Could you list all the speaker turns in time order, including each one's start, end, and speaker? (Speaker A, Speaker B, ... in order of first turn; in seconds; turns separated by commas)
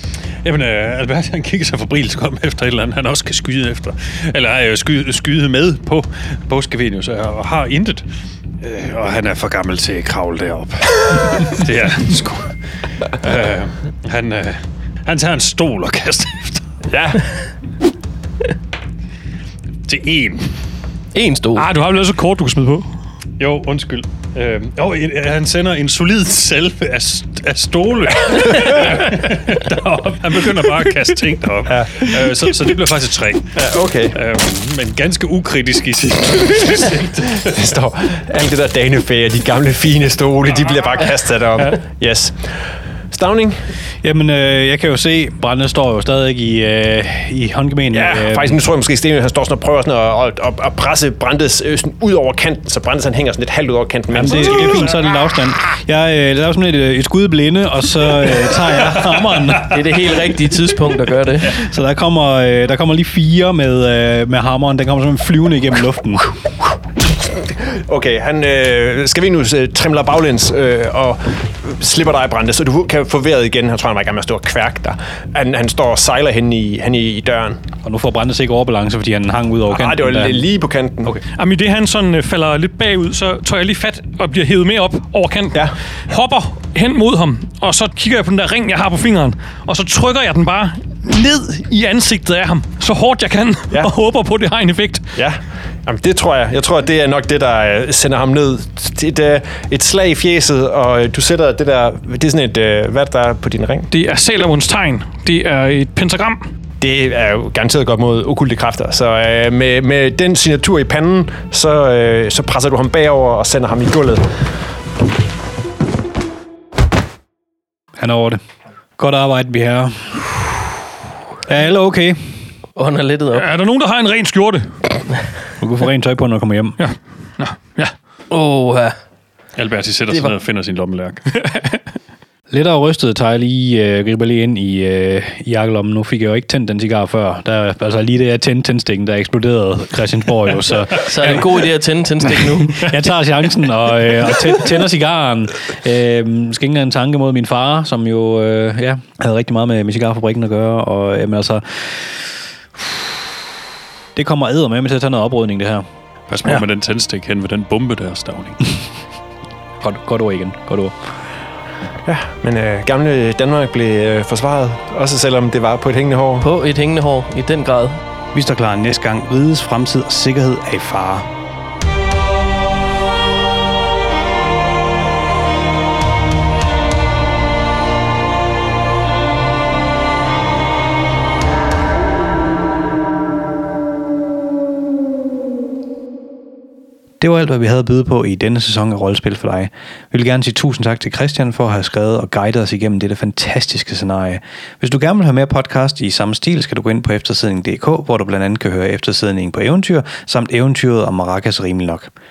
Speaker A: 0.4-8.1, Speaker A: 8.6-16.6, Speaker B: 16.9-17.2, Speaker A: 19.9-20.5, Speaker C: 21.1-21.7, Speaker D: 21.6-22.9, Speaker A: 23.4-33.5, Speaker B: 31.7-32.0, Speaker B: 33.5-34.2, Speaker A: 34.1-37.5, Speaker B: 37.4-42.6, Speaker B: 43.1-43.5, Speaker E: 44.0-48.6, Speaker B: 47.9-55.0, Speaker E: 54.1-59.9, Speaker C: 59.6-61.5, Speaker E: 61.4-66.5, Speaker B: 67.4-77.6, Speaker E: 77.8-80.4, Speaker B: 79.7-81.2, Speaker D: 81.3-95.1, Speaker B: 95.1-103.9, Speaker D: 103.9-106.5, Speaker B: 106.8-114.3, Speaker E: 118.0-118.4, Speaker E: 119.0-120.7, Speaker E: 121.5-122.3, Speaker C: 122.8-123.5, Speaker D: 123.3-124.8, Speaker E: 125.6-126.8, Speaker D: 126.8-127.9, Speaker C: 128.3-129.0, Speaker A: 129.6-131.2, Speaker D: 131.4-131.7, Speaker E: 132.5-141.5, Speaker C: 141.0-142.9, Speaker E: 142.8-152.2, Speaker E: 154.1-155.8, Speaker A: 156.3-158.7, Speaker E: 159.8-160.9, Speaker B: 162.1-166.4, Speaker C: 166.4-168.0, Speaker E: 168.3-171.3, Speaker E: 187.2-202.1